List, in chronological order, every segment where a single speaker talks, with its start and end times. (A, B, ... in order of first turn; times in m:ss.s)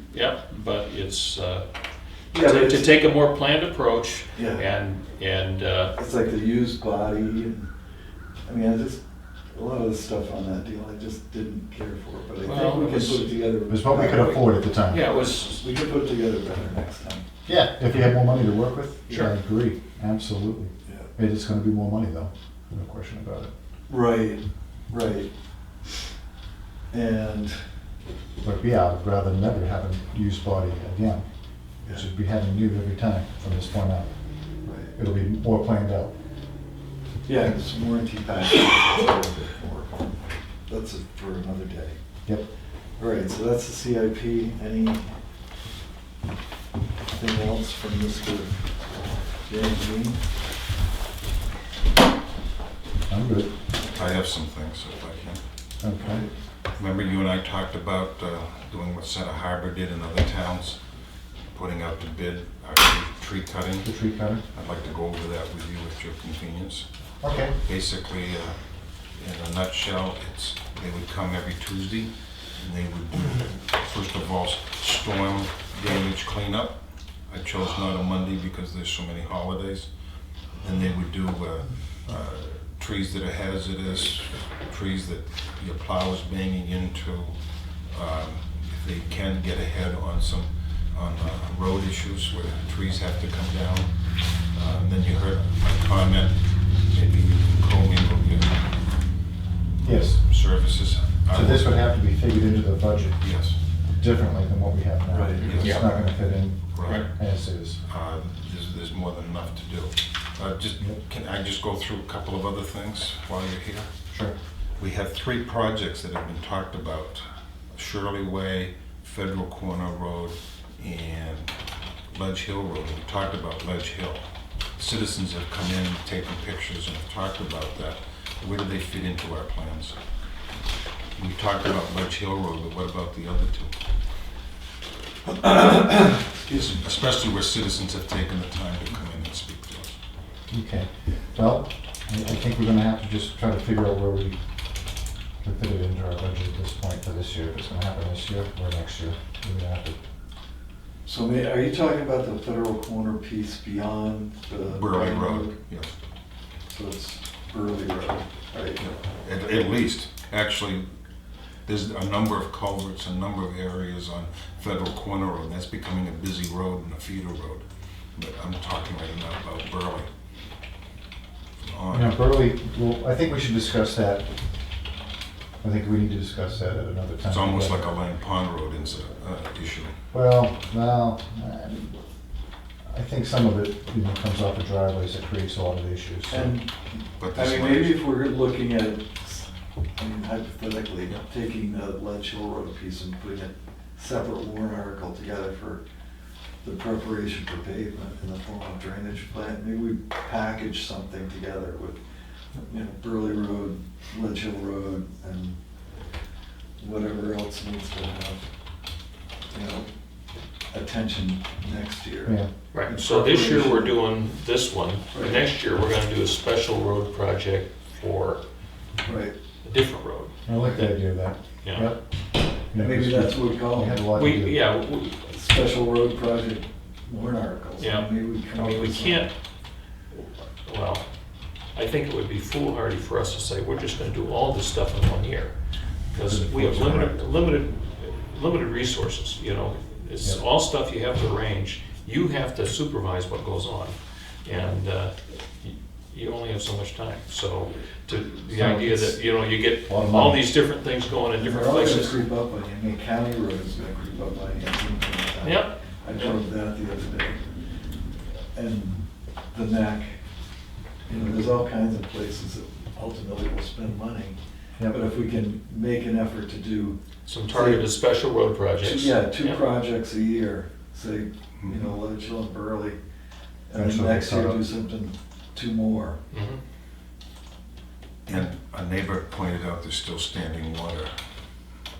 0:00.1-0:01.7 A
0:02.3-0:05.9 A
0:02.3-0:02.9 B
0:04.4-0:04.6 B
0:05.9-0:07.7 B
0:08.4-0:09.0 B
0:09.5-0:14.4 B
0:12.4-0:13.3 A
0:13.7-0:15.0 C
0:14.9-0:15.6 A
0:15.1-0:17.2 B
0:17.4-0:23.5 C
0:20.8-0:21.1 B
0:23.9-0:25.3 B
0:26.9-0:27.6 B
0:28.4-0:31.2 C
0:31.9-0:34.1 C
0:34.6-0:34.9 B
0:34.9-0:36.1 C
0:37.2-0:42.0 B
0:43.0-0:45.1 B
0:47.1-0:48.5 B
0:49.5-0:50.2 B
0:53.1-0:53.5 C
0:53.9-0:55.4 D
0:55.8-0:56.2 C
0:56.0-0:56.3 B
0:56.7-1:00.8 D
1:01.5-1:04.0 D
1:03.8-1:04.4 C
1:04.5-1:06.8 D
1:07.2-1:07.5 C
1:07.6-1:08.6 D
1:09.2-1:19.9 D
1:20.6-1:27.4 D
1:27.9-1:33.9 D
1:34.5-1:38.7 D
1:39.8-1:40.2 C
1:40.1-1:41.7 D
1:41.3-1:43.2 C
1:43.2-1:43.6 D
1:43.9-1:47.8 C
1:45.1-1:45.6 B
1:45.4-1:46.1 D
1:45.6-1:45.8 A
1:46.7-1:47.1 D
1:47.8-1:53.9 D
1:54.8-2:01.6 D
2:02.1-2:10.0 D
2:11.2-2:13.7 D
2:16.5-2:20.0 D
2:20.5-2:24.4 C
2:25.4-2:30.0 C
2:31.0-2:35.5 B
2:34.7-2:35.9 D
2:36.7-2:38.8 B
2:38.8-2:40.8 D
2:41.6-2:50.1 D
2:51.6-2:52.2 D
2:51.9-2:54.3 C
2:55.6-2:57.9 C
2:57.3-2:59.9 D
3:00.1-3:02.0 C
3:02.8-3:06.5 C
3:06.3-3:15.8 B
3:07.2-3:08.0 D
3:16.6-3:22.0 B
3:22.6-3:25.6 B
3:26.8-3:28.4 B
3:29.5-3:29.9 B
3:30.7-3:34.0 B
3:32.7-3:38.4 A
3:35.1-3:35.4 B
3:39.0-3:39.3 B
3:39.6-3:41.0 A
3:40.5-3:42.0 C
3:41.6-3:41.9 A
3:42.7-3:44.6 C
3:42.7-3:44.0 B
3:44.1-3:45.3 A
3:45.3-3:49.3 B
3:47.8-3:49.3 A
3:50.1-3:51.0 A
3:51.7-3:55.5 A
3:56.1-4:12.2 A
3:56.2-3:57.2 C
4:08.5-4:09.2 C
4:09.8-4:10.5 C
4:11.3-4:17.4 B
4:15.4-4:16.4 A
4:18.5-4:19.0 B
4:19.5-4:20.1 B
4:21.1-4:24.4 B
4:24.9-4:27.0 B
4:27.2-4:29.6 A
4:27.5-4:27.9 B
4:28.8-4:33.0 B
4:31.6-4:31.9 D
4:33.7-4:36.2 B
4:33.7-4:34.6 C
4:36.3-4:36.6 A
4:38.2-4:41.1 D